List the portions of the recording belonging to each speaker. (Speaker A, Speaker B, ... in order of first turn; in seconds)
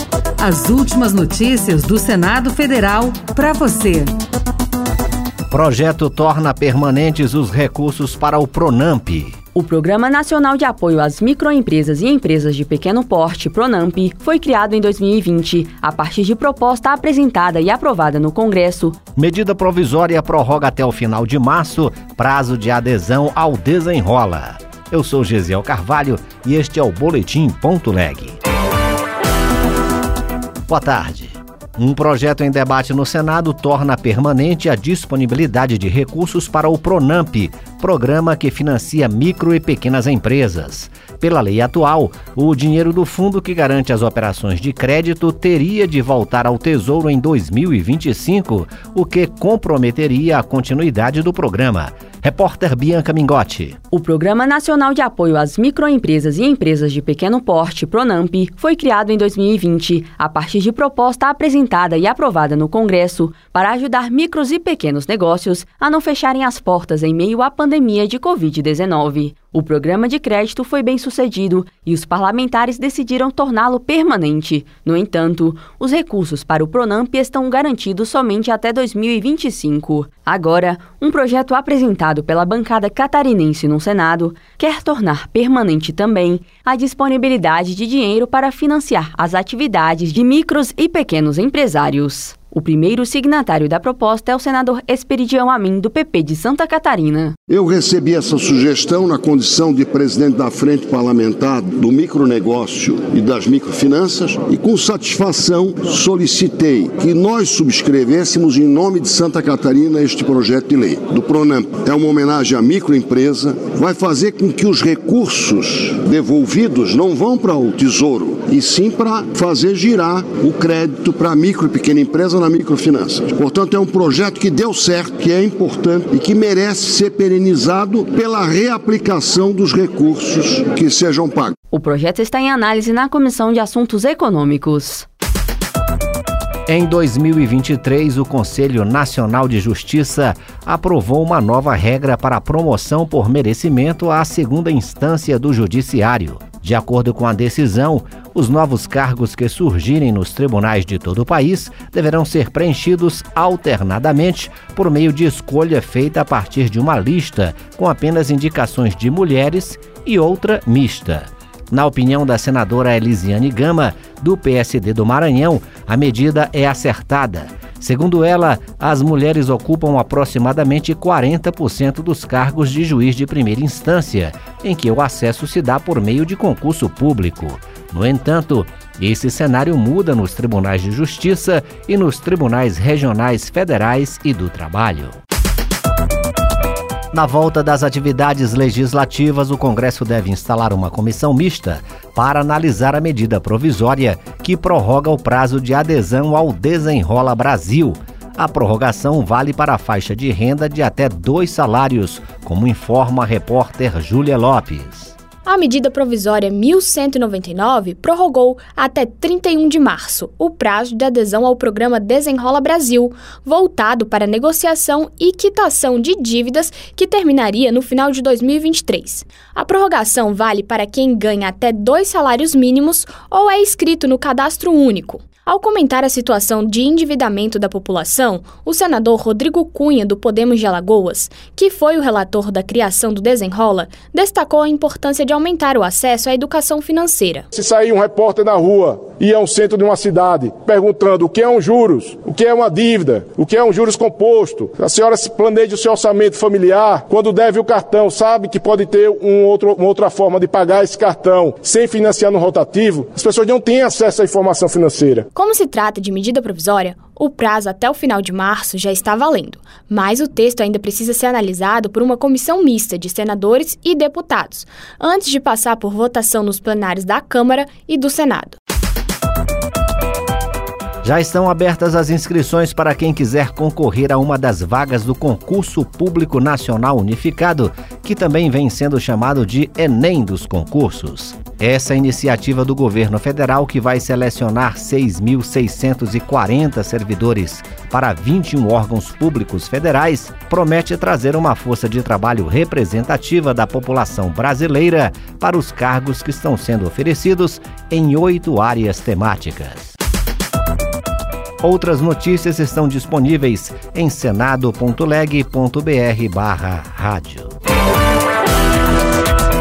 Speaker A: 0.4-4.1
Speaker B: 5.5-9.4, 19.2-28.4, 30.7-53.8, 136.7-185.2, 187.1-205.1, 271.0-299.9, 301.6-307.5
Speaker C: 9.5-19.0, 53.9-97.4, 131.7-135.1
Speaker D: 97.5-131.5
Speaker E: 205.5-237.5, 255.3-268.6
Speaker F: 237.5-255.3